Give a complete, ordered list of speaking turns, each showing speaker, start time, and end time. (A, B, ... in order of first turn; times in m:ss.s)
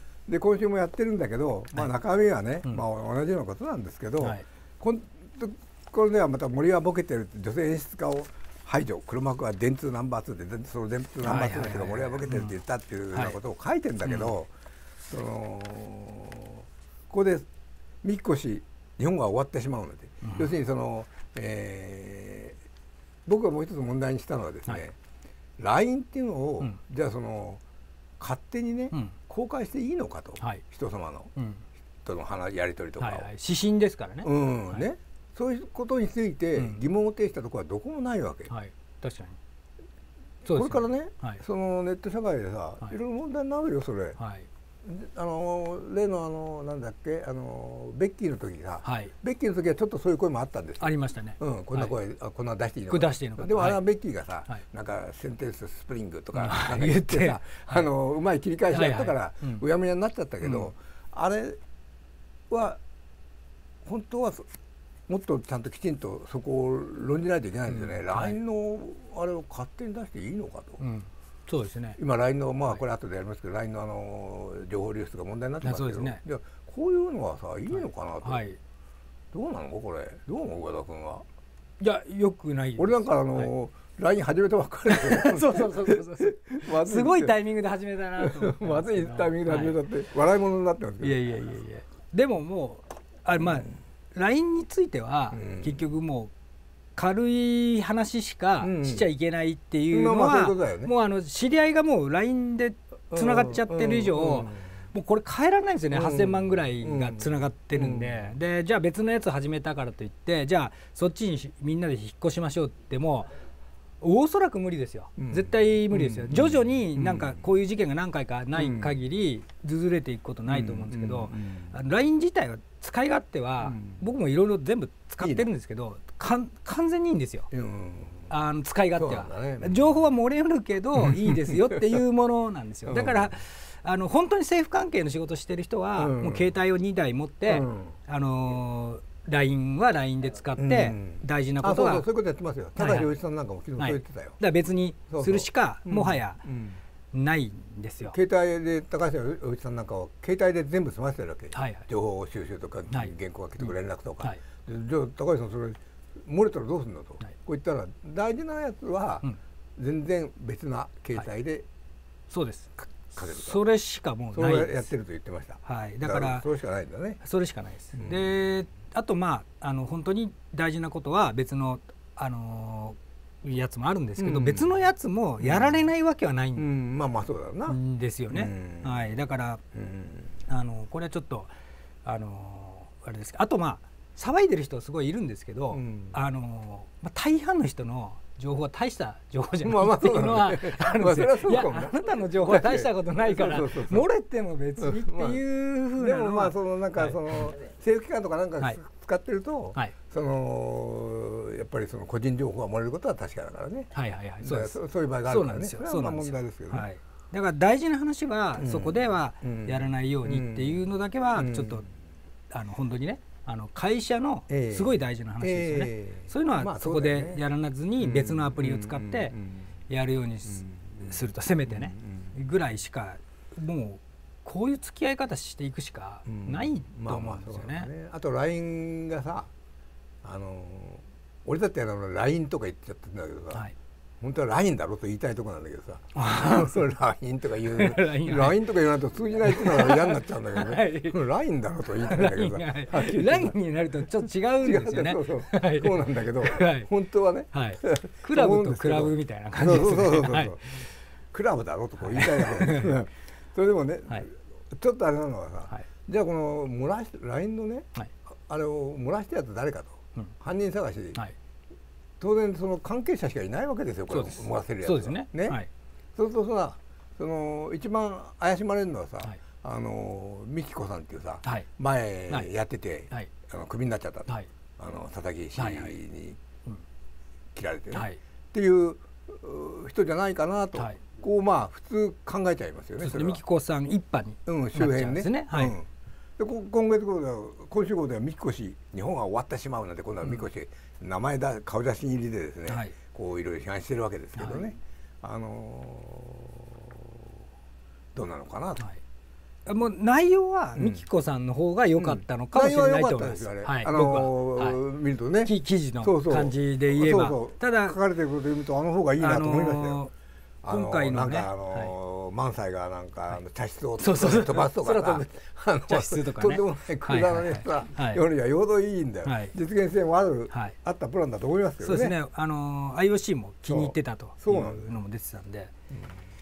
0:00.3-0:14.5 A
0:11.2-0:12.5 B
0:14.0-0:14.3 B
0:15.1-0:17.5 A
0:18.0-0:22.6 A
0:20.2-0:20.5 B
0:23.2-0:25.0 A
0:25.6-0:27.6 A
0:28.2-0:31.3 A
0:31.4-0:31.6 B
0:32.0-0:33.3 A
0:33.0-0:34.8 B
0:34.2-0:38.5 A
0:36.6-0:36.8 B
0:38.5-0:39.4 B
0:40.4-0:41.4 B
0:40.5-0:44.2 A
0:44.2-0:44.5 B
0:44.8-1:01.6 A
0:48.8-0:49.1 B
0:50.8-0:52.0 B
0:52.9-0:53.8 B
0:56.3-0:57.8 B
0:58.7-0:59.6 B
1:00.4-1:00.7 B
1:02.5-1:02.8 A
1:03.8-1:04.5 A
1:05.1-1:10.8 A
1:07.7-1:08.4 B
1:10.8-1:12.0 B
1:12.0-1:18.4 A
1:15.6-1:16.2 B
1:18.2-1:18.6 B
1:19.3-1:21.2 A
1:21.8-1:23.5 B
1:22.8-1:27.3 A
1:24.9-1:29.8 B
1:28.2-1:31.2 A
1:31.0-1:36.3 B
1:35.3-1:35.8 A
1:37.0-1:53.3 B
1:38.6-1:39.1 A
1:39.9-1:40.9 A
1:43.1-1:44.8 A
1:45.9-1:48.3 A
1:54.0-2:07.5 B
1:55.2-1:57.4 A
1:58.6-1:59.0 A
2:00.5-2:01.7 A
2:03.6-2:04.0 A
2:05.2-2:05.5 A
2:07.5-2:08.3 A
2:08.3-2:22.0 B
2:08.9-2:09.9 A
2:11.0-2:12.0 A
2:12.8-2:13.4 A
2:16.0-2:16.5 A
2:17.5-2:18.0 A
2:20.6-2:24.4 A
2:22.8-2:23.1 B
2:23.8-2:26.4 B
2:25.1-2:26.8 A
2:27.1-2:28.1 B
2:28.0-2:41.6 A
2:31.5-2:31.9 B
2:42.3-2:44.9 B
2:43.0-2:43.6 A
2:44.3-2:47.2 A
2:45.6-2:46.5 B
2:47.2-2:56.6 B
2:47.9-2:48.4 A
2:54.2-2:54.7 A
2:55.4-2:55.9 A
2:56.6-2:57.8 A
2:57.7-2:59.6 B
2:58.3-2:59.1 A
2:59.7-3:00.4 A
3:00.5-3:01.5 B
3:02.0-3:17.5 B
3:05.7-3:06.2 A
3:09.6-3:14.0 A
3:14.8-3:15.4 A
3:16.0-3:26.8 A
3:23.9-3:31.8 B
3:28.6-3:31.8 A
3:32.5-3:39.3 B
3:34.5-3:37.4 A
3:38.0-3:39.7 A
3:39.9-3:47.9 B
3:40.5-3:42.3 A
3:46.2-3:49.5 A
3:50.2-3:53.6 A
3:54.2-4:03.6 A
3:56.1-3:56.8 B
3:57.6-3:58.7 B
3:59.4-4:01.2 B
4:01.9-4:06.9 B
4:04.6-4:17.9 A
4:07.5-4:10.9 B
4:12.0-4:13.0 B
4:18.5-4:21.2 A
4:22.2-4:25.6 A
4:24.1-4:25.7 B
4:26.2-4:36.4 A
4:35.6-4:36.0 B
4:37.5-4:43.4 A
4:37.9-4:38.2 B
4:43.0-4:45.8 B
4:44.4-4:57.2 A
4:52.7-4:52.9 B
4:58.1-4:58.8 A
4:59.7-5:04.8 B
5:00.8-5:01.0 A
5:02.0-5:10.0 A
5:05.4-5:08.0 B
5:09.2-5:10.1 B
5:10.6-5:22.1 A
5:10.6-5:11.9 B
5:14.0-5:15.2 B
5:15.9-5:18.2 B
5:19.2-5:19.5 B
5:20.5-5:20.8 B
5:21.8-5:25.7 B
5:23.7-5:24.9 A